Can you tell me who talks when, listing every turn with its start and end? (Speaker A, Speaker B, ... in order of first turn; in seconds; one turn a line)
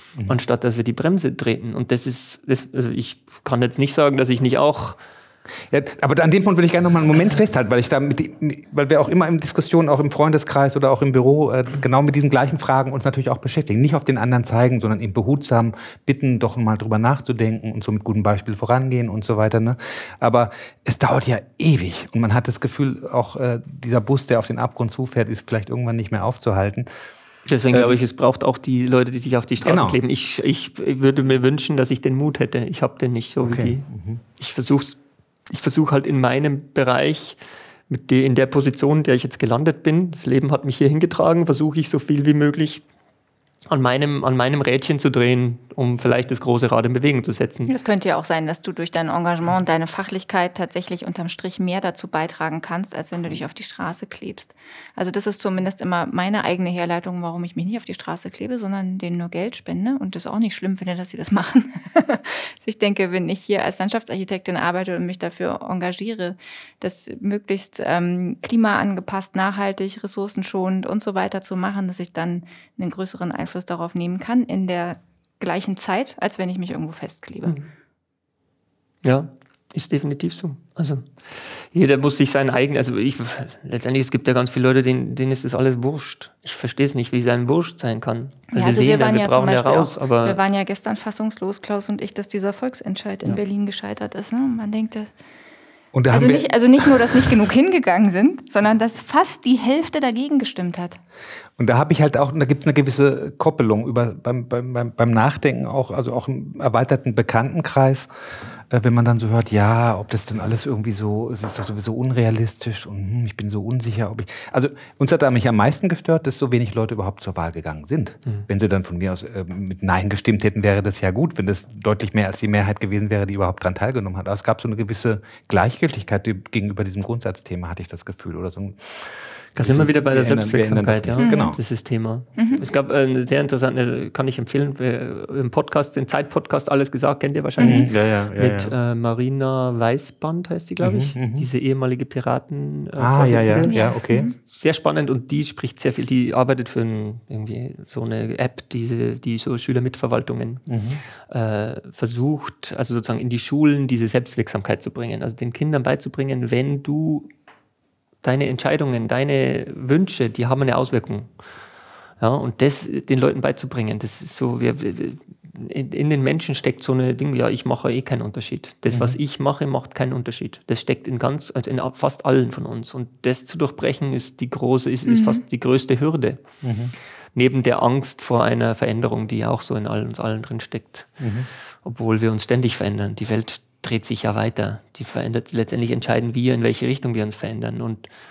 Speaker A: 0.2-5.0
Speaker B: 5.7-26.9
Speaker A: 27.4-35.0
Speaker B: 29.6-30.0
Speaker B: 33.4-34.2
Speaker A: 35.5-37.4
Speaker A: 37.9-42.8
Speaker A: 43.7-47.7
Speaker C: 47.7-77.6
Speaker A: 79.0-90.4
Speaker C: 88.5-95.1
Speaker B: 95.9-97.4
Speaker C: 96.1-101.0
Speaker B: 101.6-108.1
Speaker B: 108.7-131.6
Speaker A: 129.6-150.7
Speaker C: 131.2-131.6
Speaker C: 132.4-132.6
Speaker C: 137.6-137.8
Speaker B: 137.6-138.7
Speaker B: 140.8-141.5
Speaker B: 142.9-144.3
Speaker C: 143.6-144.3
Speaker B: 150.7-151.0
Speaker A: 151.3-157.3
Speaker A: 158.2-161.3
Speaker A: 162.2-176.4
Speaker B: 168.9-169.2
Speaker C: 175.1-175.4
Speaker B: 176.6-176.9
Speaker A: 177.3-181.2
Speaker B: 181.2-181.5
Speaker A: 181.8-188.1